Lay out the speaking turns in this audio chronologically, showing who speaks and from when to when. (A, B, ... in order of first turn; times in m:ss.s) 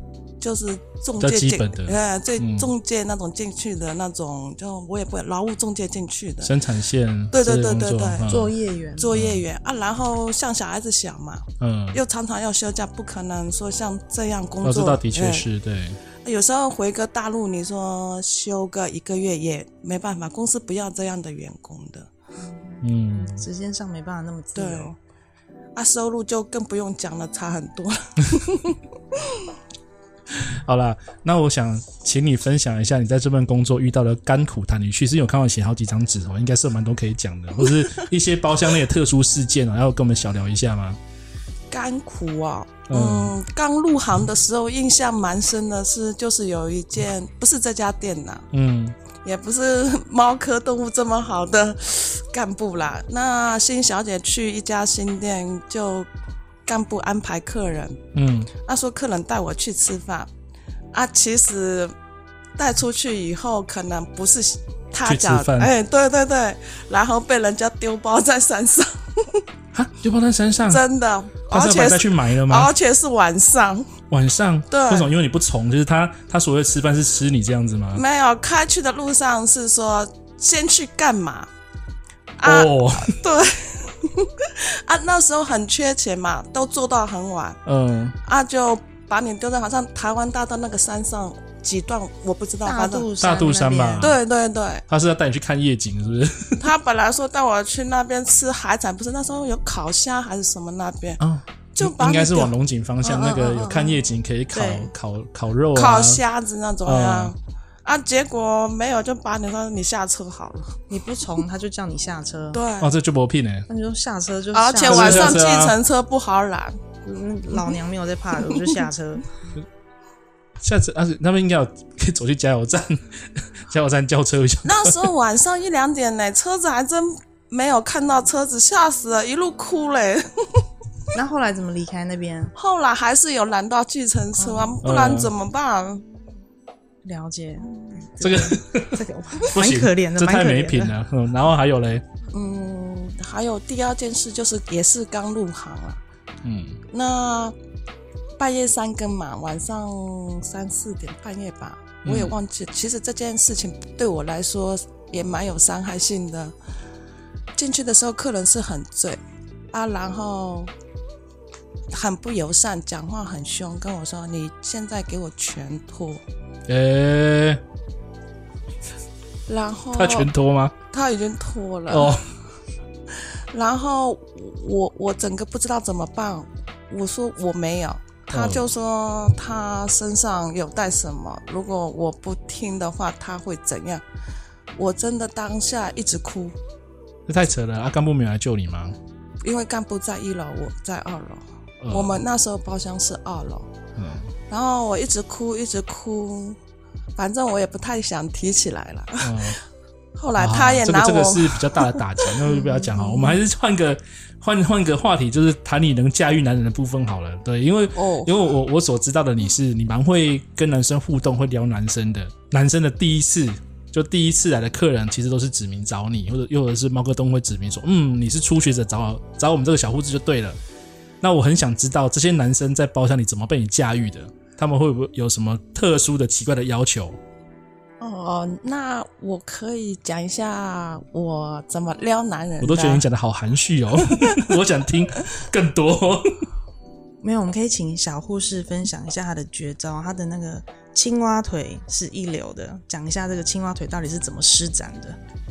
0:00.4-0:06.5 A
0:01.2-0:02.7 B
0:06.4-0:08.5 B
0:07.3-0:08.4 A
0:08.3-0:09.1 C
0:09.0-0:15.5 A
0:09.1-0:09.4 B
0:11.6-0:12.0 B
0:14.6-0:16.0 B
0:16.2-0:22.1 A
0:22.7-0:25.0 C
0:22.8-0:23.5 B
0:24.6-0:24.9 A
0:25.8-0:29.4 A
0:30.3-0:41.0 B
0:41.7-0:48.5 A
0:42.9-0:43.3 B
0:48.5-0:49.0 B
0:49.2-0:56.1 A
0:56.7-0:58.0 A
0:58.2-0:58.5 B
0:58.6-1:00.3 A
1:00.9-1:01.9 A
1:02.6-1:09.4 A
1:05.0-1:05.7 B
1:09.7-1:10.8 B
1:10.7-1:13.9 A
1:11.5-1:12.7 B
1:14.1-1:18.0 B
1:14.7-1:15.1 A
1:17.9-1:21.5 A
1:22.4-1:27.6 A
1:22.4-1:23.2 B
1:27.7-1:28.2 B
1:28.2-1:33.1 A
1:32.6-1:34.1 C
1:33.2-1:34.2 B
1:34.0-1:34.8 A
1:34.9-1:36.6 B
1:36.6-1:41.2 A
1:41.2-1:46.2 B
1:41.8-1:44.0 A
1:44.5-1:44.9 C
1:45.7-1:50.8 A
1:46.8-1:47.3 B
1:50.9-1:52.6 C
1:52.5-1:52.9 A
1:52.8-1:53.7 B
1:53.7-1:55.4 C
1:54.5-1:56.8 A
1:54.8-1:55.8 B
1:57.0-1:59.2 C
2:00.6-2:05.0 B
2:04.7-2:10.6 A
2:11.1-2:12.5 C
2:12.6-2:16.0 A
2:14.4-2:14.7 C
2:14.8-2:15.3 B
2:17.0-2:21.0 C
2:18.2-2:22.0 B
2:22.3-2:26.0 A
2:26.4-2:26.8 B
2:26.9-2:27.6 A
2:28.4-2:36.5 A
2:32.0-2:32.4 B
2:37.6-2:39.2 A
2:39.7-2:40.7 A
2:41.9-2:46.2 A
2:46.7-2:47.6 B
2:49.5-2:50.3 A
2:49.9-2:50.7 B
2:50.9-2:52.2 A
2:51.9-2:52.2 B
2:53.1-3:04.0 A
2:58.3-2:58.6 B
3:04.8-3:06.6 A
3:07.3-3:09.0 B
3:09.4-3:13.7 A
3:11.8-3:12.2 B
3:14.0-3:14.3 B
3:14.5-3:16.6 A
3:17.2-3:19.6 A
3:19.2-3:19.6 B
3:20.2-3:23.4 A
3:20.4-3:40.6 B
3:28.0-3:28.4 A
3:41.2-3:47.2 B
3:48.0-3:53.0 A
3:52.6-3:56.3 B
3:57.2-4:05.2 C